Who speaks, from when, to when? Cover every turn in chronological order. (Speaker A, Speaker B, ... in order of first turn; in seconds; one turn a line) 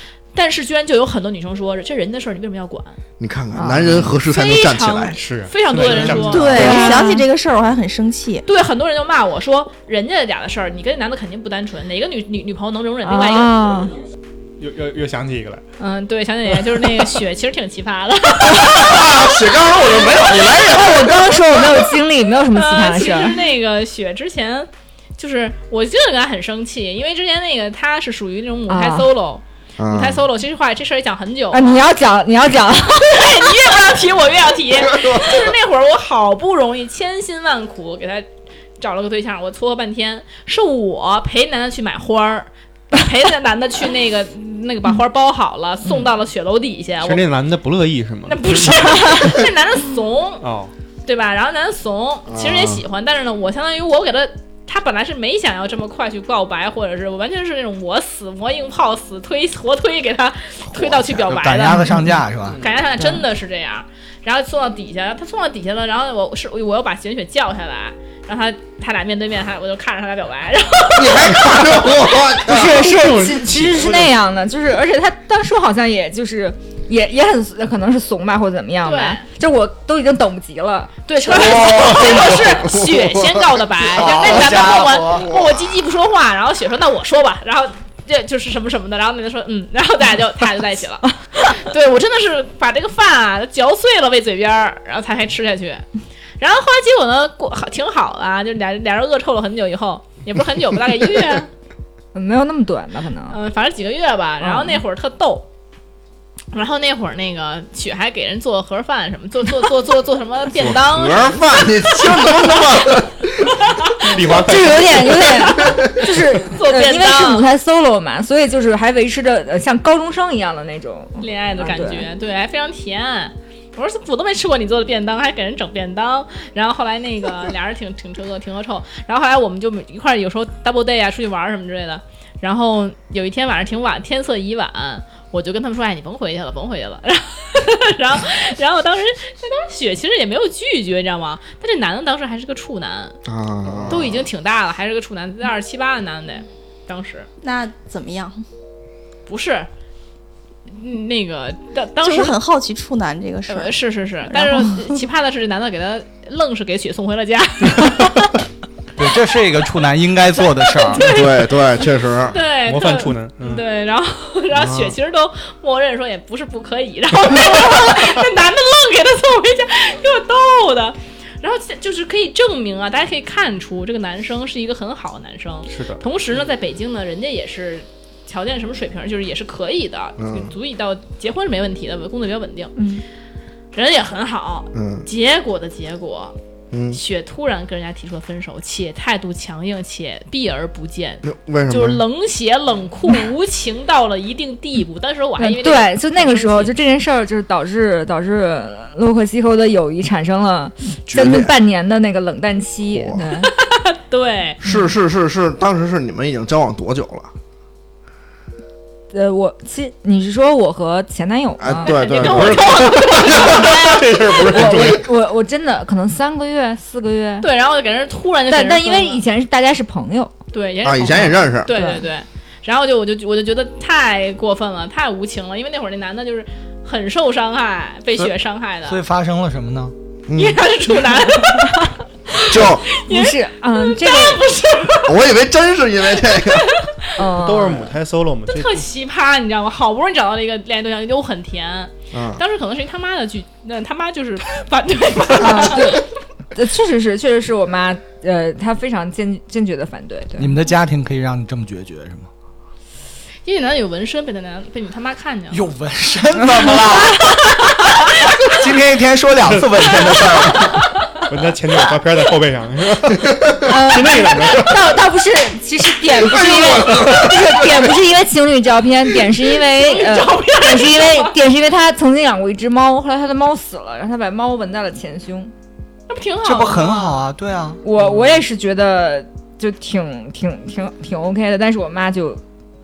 Speaker A: 0.3-3.0
Speaker B: 3.2-5.2
Speaker C: 3.5-3.9
Speaker D: 3.8-4.0
Speaker A: 4.1-7.0
Speaker D: 5.1-6.8
Speaker E: 6.3-8.4
Speaker C: 6.5-7.2
Speaker A: 8.4-13.6
Speaker C: 13.0-14.0
Speaker D: 14.6-15.6
Speaker A: 15.8-20.4
Speaker B: 18.4-21.7
Speaker C: 20.6-23.4
Speaker A: 22.5-31.8
Speaker C: 28.7-29.1
Speaker B: 29.8-30.2
Speaker C: 31.5-33.3
Speaker A: 33.0-38.3
Speaker B: 34.9-35.4
Speaker A: 38.8-47.3
Speaker D: 47.0-49.1
Speaker A: 48.3-50.5
Speaker D: 50.4-50.7
Speaker A: 51.0-61.9
Speaker B: 52.3-52.8
Speaker B: 60.7-61.2
Speaker F: 61.2-62.6
Speaker C: 61.9-62.1
Speaker D: 62.4-62.9
Speaker A: 62.5-72.2
Speaker C: 63.0-63.2
Speaker B: 70.9-72.8
Speaker C: 72.4-80.9
Speaker D: 72.5-74.1
Speaker A: 78.8-79.2
Speaker A: 81.1-95.8
Speaker B: 81.2-84.6
Speaker F: 83.9-85.3
Speaker B: 85.2-85.7
Speaker A: 96.4-101.5
Speaker C: 102.1-103.4
Speaker A: 103.3-105.5
Speaker C: 104.4-104.8
Speaker A: 106.5-112.9
Speaker B: 110.5-113.6
Speaker D: 114.0-115.4
Speaker C: 114.3-122.1
Speaker A: 115.2-117.5
Speaker A: 121.2-143.2
Speaker B: 143.2-144.3
Speaker A: 143.9-147.3
Speaker E: 147.4-148.4
Speaker A: 149.3-149.7
Speaker A: 150.7-152.4
Speaker E: 152.0-154.9
Speaker A: 153.5-158.3
Speaker F: 158.9-161.1
Speaker A: 160.8-182.7
Speaker B: 161.0-162.4
Speaker D: 162.6-163.6
Speaker B: 164.5-164.9
Speaker D: 175.7-176.0
Speaker B: 180.2-180.5
Speaker C: 182.8-183.0
Speaker A: 183.7-186.3
Speaker B: 184.7-185.1
Speaker B: 186.7-187.0
Speaker A: 186.9-196.7
Speaker B: 191.2-192.0
Speaker C: 195.4-203.5
Speaker B: 201.1-201.5
Speaker B: 202.9-203.2
Speaker A: 203.4-204.6
Speaker B: 204.6-207.3
Speaker C: 204.6-204.9
Speaker C: 209.1-212.0
Speaker B: 211.6-214.0
Speaker A: 211.8-214.0
Speaker D: 212.2-215.1
Speaker C: 214.4-217.5
Speaker A: 217.4-219.2
Speaker C: 218.5-220.3
Speaker A: 220.5-229.0
Speaker B: 220.8-221.7
Speaker C: 221.1-222.1
Speaker F: 228.8-229.9
Speaker B: 230.3-230.6
Speaker A: 230.3-235.2
Speaker B: 232.5-232.9
Speaker C: 232.9-234.4
Speaker B: 235.0-236.8
Speaker A: 236.2-236.9
Speaker C: 237.2-238.0
Speaker D: 237.3-238.9
Speaker A: 238.5-246.1
Speaker B: 242.1-242.4
Speaker C: 245.3-250.6
Speaker F: 250.4-252.3
Speaker A: 253.4-255.7
Speaker F: 255.5-260.9
Speaker D: 259.4-260.1
Speaker D: 261.3-264.8
Speaker C: 263.6-275.5
Speaker B: 266.1-267.9
Speaker D: 266.4-267.3
Speaker A: 269.7-271.4
Speaker A: 276.1-277.3
Speaker F: 276.4-277.8
Speaker C: 277.8-282.4
Speaker D: 278.0-278.4